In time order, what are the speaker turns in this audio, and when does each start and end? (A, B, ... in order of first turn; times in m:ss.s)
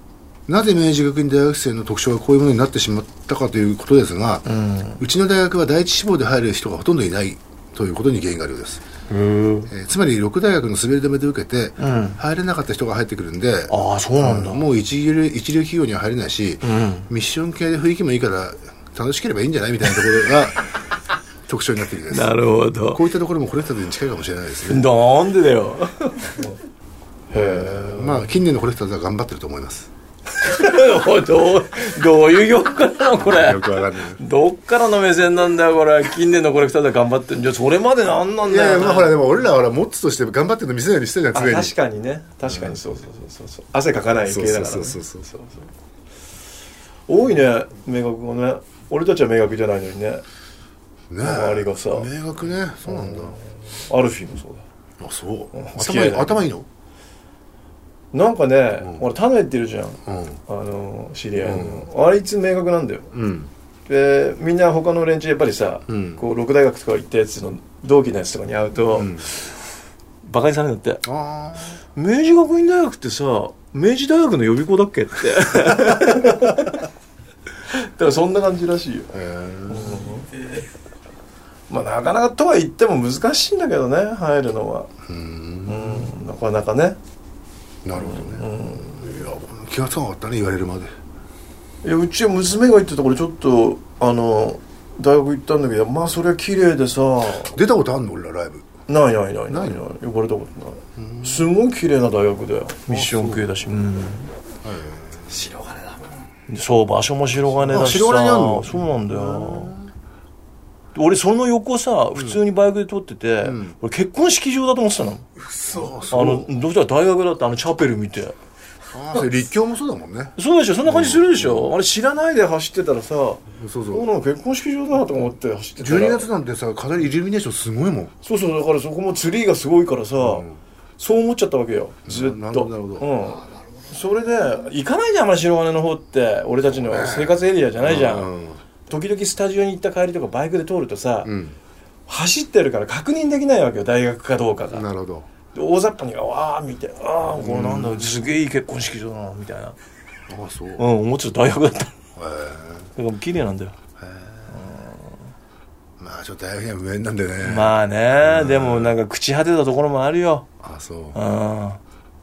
0:00.5-0:04.5 A
0:04.5-0:05.0 B
0:05.0-0:08.8 A
0:09.1-0:09.7 B
0:09.7-0:20.6 A
0:11.8-0:12.2 B
0:13.7-0:14.6 B
0:16.6-0:17.1 B
0:21.5-0:24.9 A
0:22.1-0:23.0 B
0:24.7-0:26.6 B
0:27.3-0:28.4 B
0:27.4-0:29.9 A
0:30.4-0:39.2 B
0:33.2-0:34.2 A
0:38.5-0:41.7 A
0:41.3-0:45.6 B
0:42.4-0:42.8 A
0:44.2-0:45.3 A
0:47.1-0:50.2 B
0:51.1-0:53.4 A
0:51.2-0:52.1 B
0:52.9-0:54.6 B
0:55.0-0:56.7 A
0:55.5-0:56.5 B
0:58.1-1:03.1 B
1:00.1-1:00.4 A
1:01.4-1:01.9 A
1:03.1-1:03.5 A
1:03.9-1:09.5 B
1:05.9-1:06.2 A
1:09.0-1:09.3 A
1:10.2-1:11.0 B
1:11.0-1:11.8 A
1:12.0-1:16.9 B
1:17.7-1:19.1 B
1:19.1-1:20.1 A
1:19.7-1:20.5 B
1:21.7-1:24.9 B
1:25.1-1:26.1 A
1:25.7-1:27.0 B
1:27.8-1:30.9 A
1:28.0-1:29.1 B
1:31.8-1:37.6 B
1:37.5-1:38.7 A
1:38.9-1:44.3 B
1:39.5-1:39.8 A
1:41.0-1:41.5 A
1:42.9-1:43.5 A
1:44.6-1:45.6 A
1:46.5-1:49.8 B
1:47.6-1:49.9 A
1:51.0-1:55.3 B
1:53.4-1:53.8 A
1:55.5-1:56.5 A
1:56.1-1:58.4 B
1:58.9-2:01.7 A
2:00.4-2:06.3 B
2:03.5-2:04.1 A
2:05.8-2:08.1 A
2:08.2-2:10.5 B
2:10.2-2:10.6 A
2:11.0-2:18.3 B
2:12.1-2:13.1 A
2:16.7-2:18.6 A
2:18.9-2:21.3 B
2:21.2-2:21.6 A
2:22.1-2:24.9 B
2:24.7-2:25.3 A
2:25.5-2:29.8 B
2:27.4-2:28.2 A
2:30.3-2:30.8 A
2:30.8-2:31.9 B
2:32.2-2:32.9 A
2:33.0-2:33.8 B
2:34.0-2:34.6 A
2:34.5-2:35.1 B
2:36.0-2:39.0 A
2:37.4-2:40.5 B
2:40.6-2:41.2 A
2:41.1-2:41.8 B